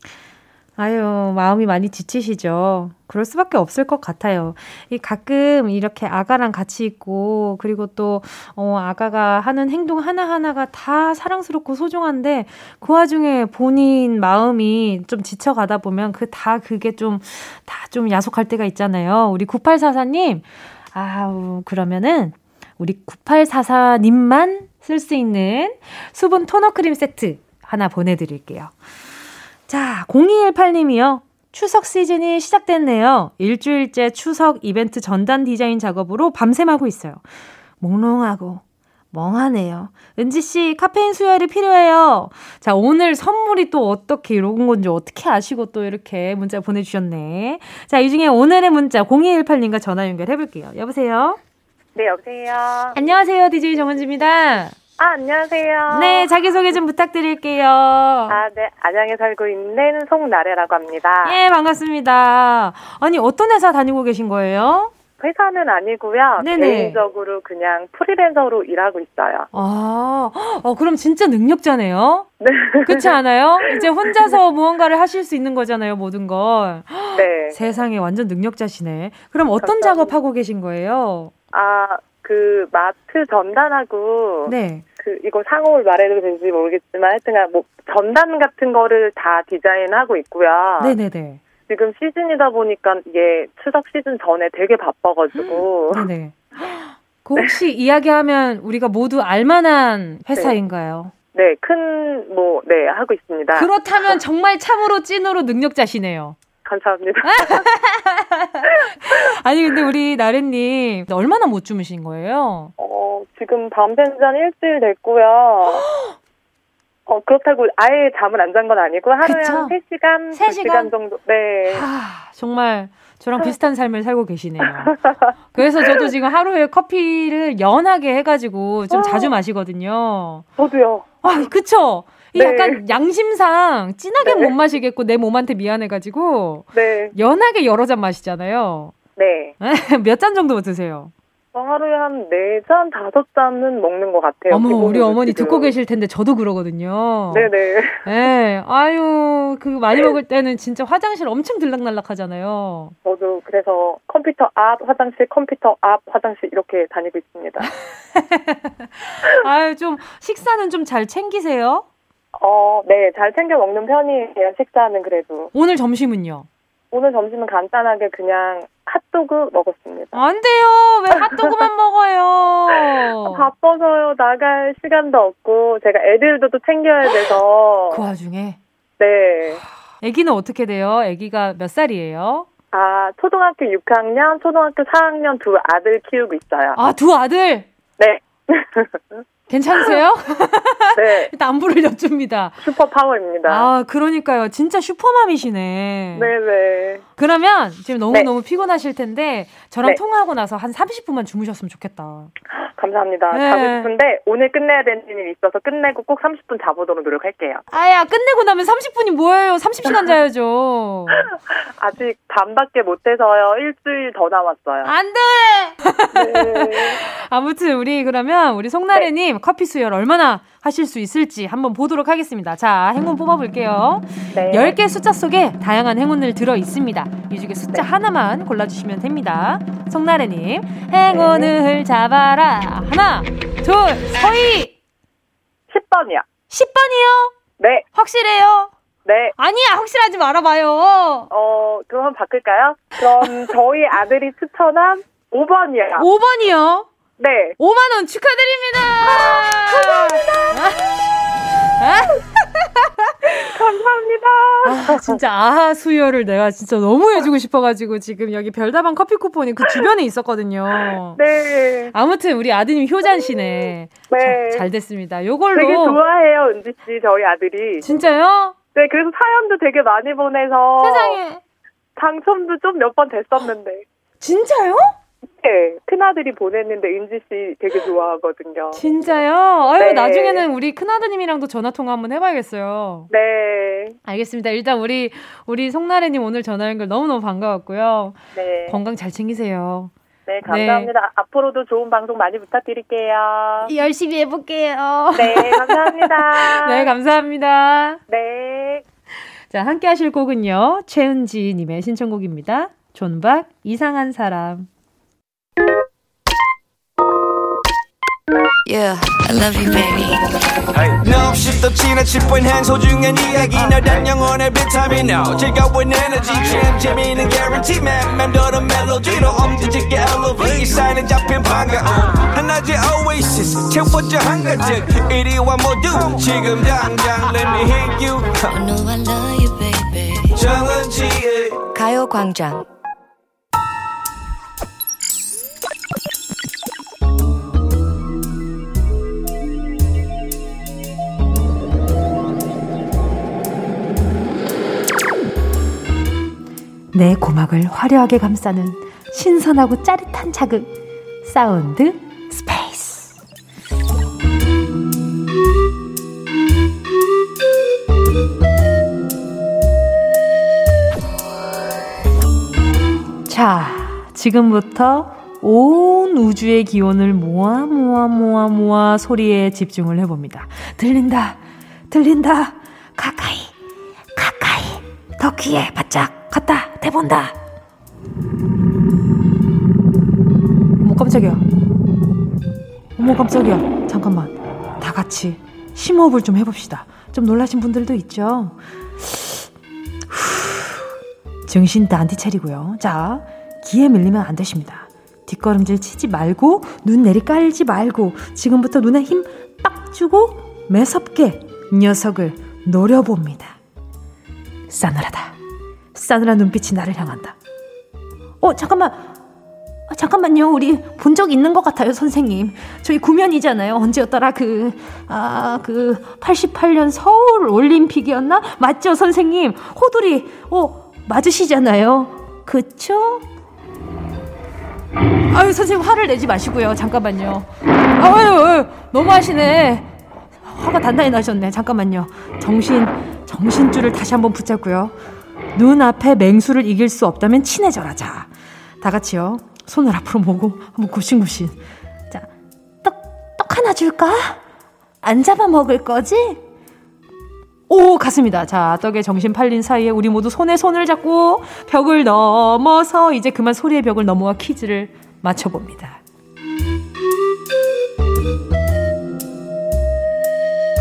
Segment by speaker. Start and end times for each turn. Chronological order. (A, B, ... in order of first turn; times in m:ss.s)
0:00.8-0:28.7 A
0:29.7-0:37.2 A
0:37.8-0:51.4 A
0:52.0-0:53.0 B
0:53.0-0:54.8 A
0:55.0-0:56.3 B
0:55.9-0:58.4 A
0:58.3-1:01.4 B
1:01.2-1:04.9 A
1:05.2-1:09.5 B
1:06.4-1:07.0 A
1:09.5-1:12.3 A
1:12.4-1:14.4 B
1:12.8-1:21.3 A
1:17.2-1:17.6 B
1:19.6-1:20.1 B
1:21.5-1:31.0 B
1:24.5-1:24.8 A
1:30.8-1:31.4 A
1:31.7-1:36.1 B
1:35.9-1:41.1 A
1:41.3-1:44.2 B
1:43.5-1:46.4 A
1:46.6-1:47.7 B
1:47.2-1:52.7 A
1:49.0-1:49.3 B
1:52.8-1:55.8 B
1:55.7-1:56.2 A
1:57.1-2:01.9 B
1:59.2-1:59.8 A
2:00.3-2:00.9 A
2:01.7-2:05.0 A
2:04.8-2:06.1 B
2:05.5-2:10.5 A
2:08.9-2:09.3 B
2:10.6-2:11.2 B
2:11.2-2:18.9 A
2:12.4-2:12.8 B
2:14.2-2:14.5 B
2:16.7-2:17.2 B
2:19.2-2:19.6 B
2:19.6-2:21.1 A
2:21.5-2:25.7 B
2:24.5-2:27.5 A
2:27.3-2:28.1 B
2:28.0-2:33.0 A
2:33.0-2:37.7 B
2:38.1-2:41.9 A
2:42.4-2:45.5 B
2:45.5-2:46.5 A
2:46.9-2:50.2 B
2:50.1-2:53.5 A
2:51.2-2:51.6 B
2:53.2-2:58.0 B
2:57.9-2:58.6 A
2:59.0-2:59.6 B
3:00.0-3:02.5 A
3:02.7-3:06.8 B
3:06.8-3:07.7 A
3:08.0-3:09.2 B
3:09.5-3:12.6 A
3:11.0-3:11.3 B
3:12.6-3:13.7 B
3:13.5-3:16.3 A
3:16.2-3:17.0 B
3:17.2-3:22.3 A
3:22.5-3:27.6 B
3:23.3-3:23.9 A
3:27.7-3:31.3 A
3:31.2-3:34.9 B
3:34.8-3:54.8 A
3:36.1-3:37.0 B
3:44.3-3:44.8 B
3:51.1-3:51.5 B
3:55.7-3:56.3 B
3:56.5-3:57.4 A
3:57.6-3:57.9 B
3:57.9-3:58.7 A
3:59.0-3:59.4 B
3:59.4-4:01.3 A
4:01.3-4:06.1 B
4:03.2-4:03.5 A
4:06.0-4:06.9 A
4:07.2-4:07.6 B
4:07.6-4:11.0 A
4:09.0-4:10.6 B
4:11.8-4:13.6 A
4:13.4-4:15.2 B
4:14.6-4:21.2 A
4:20.8-4:21.9 B
4:21.9-4:26.0 A
4:23.0-4:24.6 B
4:25.5-4:27.8 B
4:27.8-4:28.6 A
4:28.8-4:31.2 B
4:30.8-4:31.4 A
4:32.0-4:33.8 B
4:34.2-4:34.9 A
4:35.3-4:38.8 B
4:38.8-4:43.1 A
4:39.8-4:40.4 B
4:43.1-4:44.0 B
4:44.0-4:49.9 A
4:48.3-4:48.8 B
4:50.3-4:53.7 B
4:50.5-4:50.9 A
4:53.6-4:58.0 A
4:55.2-4:56.9 B
4:58.1-4:58.8 B
4:59.5-5:04.7 A
5:08.6-5:10.3 C
5:10.8-5:28.5 D
5:28.5-5:30.4 C
5:30.3-5:31.6 D
5:31.7-5:32.7 C
5:46.9-5:50.7 A
5:51.2-5:53.2 A
6:03.3-6:13.5 A
6:14.2-6:17.4 A
6:20.8-6:21.4 A
6:23.0-6:29.5 A
6:30.1-6:30.8 A
6:31.5-6:43.6 A
6:44.7-6:45.4 A
6:45.9-6:47.4 A
6:48.4-6:49.1 A
6:49.9-7:03.3 A
7:05.3-7:09.9 A
7:10.4-7:15.0 A
7:15.5-7:18.3 A
7:18.8-7:21.6 A
7:22.8-7:24.4 A
7:25.0-7:26.4 A
7:27.7-7:36.0 A